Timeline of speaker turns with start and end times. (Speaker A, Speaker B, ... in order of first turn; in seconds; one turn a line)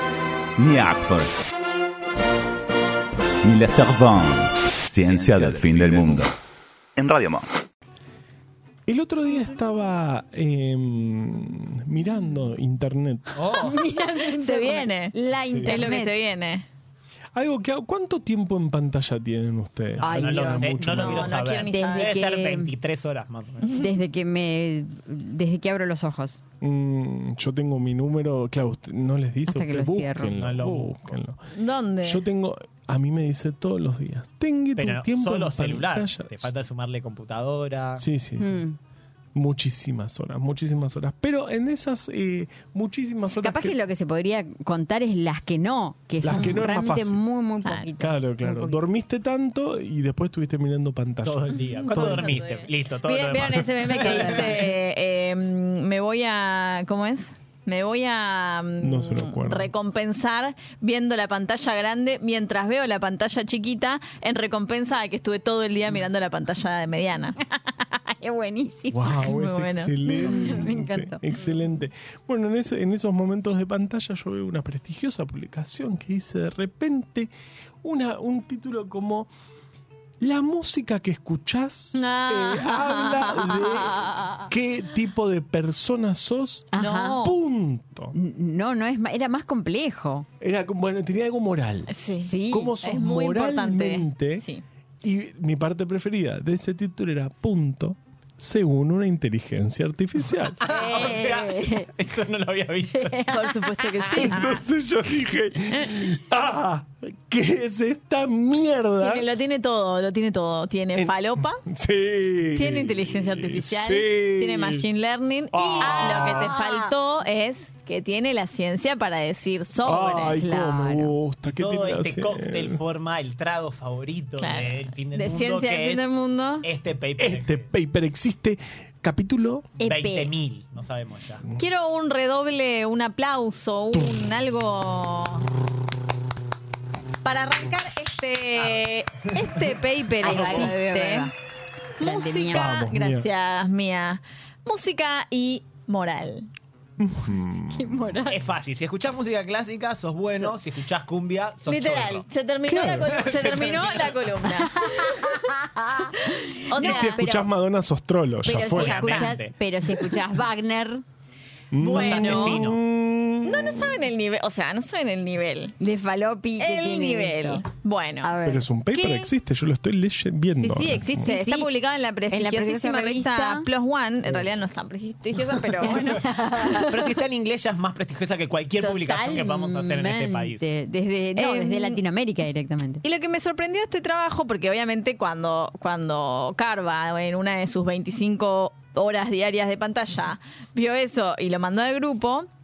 Speaker A: 0.6-1.3
Speaker A: 3.4-6.3
Speaker B: 5.1-5.7
Speaker A: 7.0-7.5
Speaker C: 8.9-13.4
Speaker B: 13.4-13.8
Speaker D: 13.5-16.2
Speaker E: 13.7-16.7
Speaker C: 15.5-15.9
Speaker C: 17.4-21.4
Speaker B: 20.0-23.9
Speaker D: 20.0-20.8
Speaker E: 20.9-22.2
Speaker D: 21.7-22.7
Speaker D: 23.7-26.4
Speaker C: 26.6-31.4
Speaker D: 29.5-30.4
Speaker B: 30.4-31.2
Speaker E: 31.5-32.2
Speaker C: 32.0-36.5
Speaker B: 34.8-38.0
Speaker C: 38.0-38.6
Speaker D: 38.4-38.8
Speaker C: 39.4-43.8
Speaker D: 43.4-48.8
Speaker C: 46.2-47.2
Speaker E: 47.6-47.9
Speaker C: 48.0-52.4
Speaker B: 51.2-54.6
Speaker E: 51.8-67.4
Speaker D: 54.0-54.7
Speaker C: 58.8-59.7
Speaker D: 67.9-69.2
Speaker C: 68.9-79.3
Speaker E: 69.1-70.3
Speaker D: 70.1-71.2
Speaker C: 80.2-88.2
Speaker E: 82.0-84.5
Speaker D: 86.7-87.3
Speaker E: 86.8-87.4
Speaker D: 88.1-90.3
Speaker C: 90.4-91.9
Speaker E: 91.9-94.6
Speaker D: 92.2-92.8
Speaker C: 92.5-94.4
Speaker C: 95.0-100.6
Speaker B: 100.6-103.3
Speaker E: 100.6-101.5
Speaker D: 100.8-101.9
Speaker D: 102.9-104.4
Speaker E: 103.3-104.6
Speaker C: 104.1-109.3
Speaker E: 109.0-111.6
Speaker C: 111.0-114.9
Speaker E: 112.5-120.4
Speaker C: 115.5-116.6
Speaker D: 115.8-116.9
Speaker C: 119.8-122.8
Speaker D: 120.3-121.2
Speaker B: 121.5-127.7
Speaker E: 124.4-126.7
Speaker C: 127.2-129.7
Speaker D: 129.8-130.3
Speaker B: 129.8-131.4
Speaker E: 131.6-135.5
Speaker E: 137.2-141.3
Speaker D: 140.2-141.3
Speaker E: 142.0-146.5
Speaker D: 142.0-142.7
Speaker C: 142.5-143.3
Speaker C: 147.0-148.2
Speaker D: 147.6-148.4
Speaker B: 148.3-152.2
Speaker E: 150.3-150.6
Speaker E: 151.7-155.3
Speaker C: 152.7-153.2
Speaker B: 153.0-154.3
Speaker D: 154.5-157.5
Speaker E: 156.6-157.2
Speaker C: 156.8-159.3
Speaker D: 158.4-161.0
Speaker B: 158.7-159.5
Speaker C: 161.7-164.0
Speaker B: 161.8-162.8
Speaker E: 161.9-162.6
Speaker E: 163.4-165.8
Speaker D: 165.8-167.6
Speaker E: 166.6-168.3
Speaker D: 168.2-168.6
Speaker C: 168.4-171.3
Speaker E: 168.9-169.3
Speaker E: 170.6-177.1
Speaker D: 171.2-171.7
Speaker D: 172.3-173.7
Speaker D: 175.8-177.0
Speaker B: 176.7-180.6
Speaker D: 178.8-183.0
Speaker E: 181.4-182.0
Speaker E: 183.0-192.5